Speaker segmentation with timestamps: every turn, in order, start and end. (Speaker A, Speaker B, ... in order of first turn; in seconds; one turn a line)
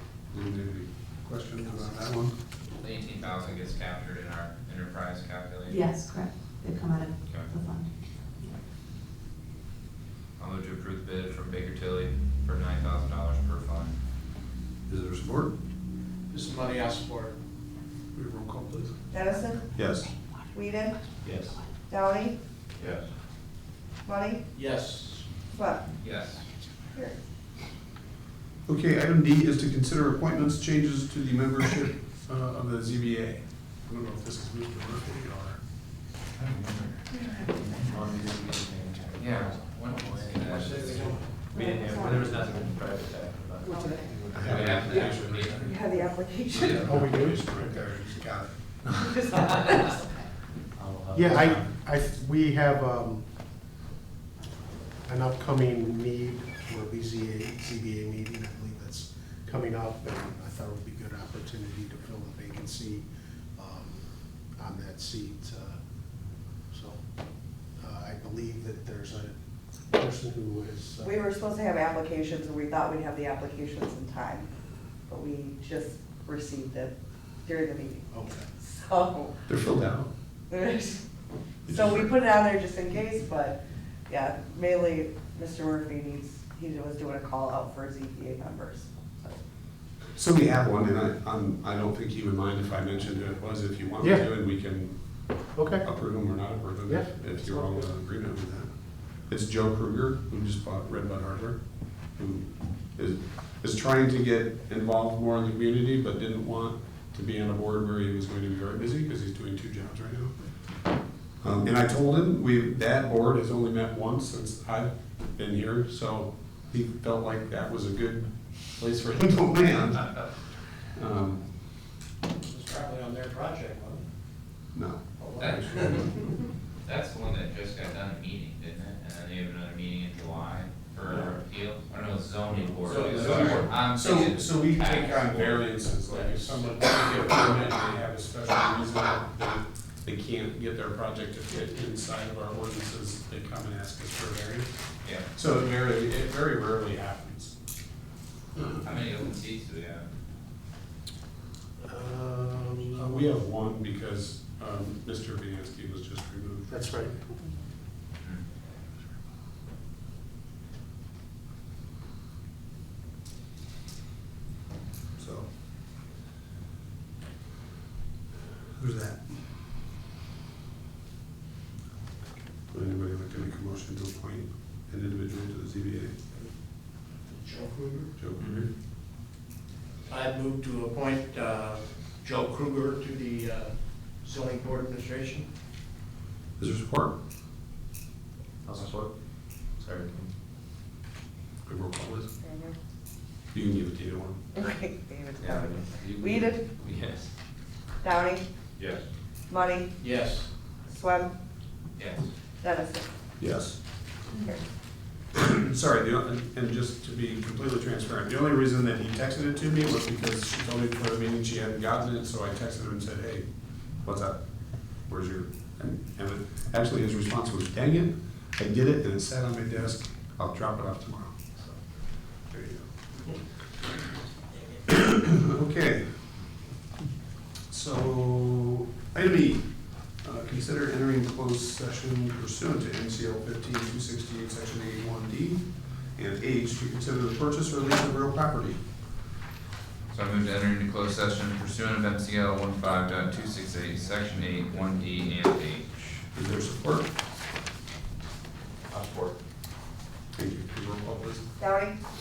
Speaker A: 0.3-2.3
Speaker B: 2.8-5.8
Speaker C: 5.7-8.5
Speaker B: 7.3-7.5
Speaker B: 10.4-14.0
Speaker A: 14.9-15.5
Speaker D: 16.3-17.4
Speaker A: 18.1-19.0
Speaker E: 19.1-19.7
Speaker A: 19.7-20.1
Speaker E: 20.5-21.0
Speaker F: 21.2-21.6
Speaker E: 21.9-22.4
Speaker B: 22.8-23.0
Speaker E: 24.0-24.4
Speaker D: 24.5-25.3
Speaker E: 25.5-25.8
Speaker B: 26.0-26.4
Speaker E: 26.9-27.2
Speaker A: 28.7-35.6
Speaker B: 36.4-37.8
Speaker F: 37.6-45.5
Speaker B: 39.2-41.1
Speaker D: 40.7-41.1
Speaker E: 41.5-42.4
Speaker A: 44.3-45.5
Speaker B: 44.4-45.8
Speaker E: 45.6-46.8
Speaker B: 46.5-47.3
Speaker G: 46.8-48.5
Speaker A: 46.8-47.9
Speaker E: 49.0-50.1
Speaker F: 50.8-51.7
Speaker G: 51.1-53.2
Speaker G: 55.1-63.0
Speaker G: 63.6-65.8
Speaker G: 66.7-67.0
Speaker G: 67.8-69.3
Speaker G: 69.9-71.2
Speaker E: 71.0-74.5
Speaker E: 75.1-76.9
Speaker E: 77.5-79.4
Speaker G: 78.1-78.5
Speaker A: 79.5-80.1
Speaker E: 80.5-81.1
Speaker E: 81.6-89.4
Speaker A: 81.7-82.1
Speaker A: 90.2-110.4
Speaker G: 95.5-95.8
Speaker G: 96.9-97.8
Speaker A: 111.4-120.3
Speaker A: 120.9-121.5
Speaker D: 122.4-124.0
Speaker A: 124.7-126.1
Speaker D: 125.2-126.0
Speaker B: 125.4-126.1
Speaker B: 126.8-135.6
Speaker A: 132.8-144.7
Speaker D: 133.0-133.5
Speaker D: 136.0-137.7
Speaker A: 145.3-147.6
Speaker B: 148.8-150.1
Speaker G: 151.8-153.2
Speaker A: 153.0-156.8
Speaker G: 156.7-157.2
Speaker A: 165.2-165.5
Speaker A: 168.8-169.3
Speaker A: 172.7-176.1
Speaker D: 177.2-178.1
Speaker A: 178.2-178.7
Speaker F: 178.4-178.7
Speaker D: 180.1-185.5
Speaker A: 186.6-187.1
Speaker F: 188.6-189.1
Speaker F: 189.8-190.3
Speaker A: 191.7-192.3
Speaker E: 192.4-192.8
Speaker A: 193.5-194.4
Speaker E: 194.5-196.7
Speaker F: 195.4-197.3
Speaker E: 198.0-198.4
Speaker B: 198.8-199.0
Speaker E: 199.5-199.9
Speaker D: 200.0-200.5
Speaker E: 200.8-201.3
Speaker B: 201.9-202.3
Speaker E: 202.6-203.1
Speaker A: 203.4-203.8
Speaker E: 204.3-204.6
Speaker A: 205.3-221.5
Speaker A: 222.5-222.9
Speaker A: 224.9-226.1
Speaker A: 227.7-238.8
Speaker B: 240.1-246.2
Speaker A: 246.3-247.1
Speaker B: 248.9-249.3
Speaker A: 250.3-251.4
Speaker E: 251.6-252.0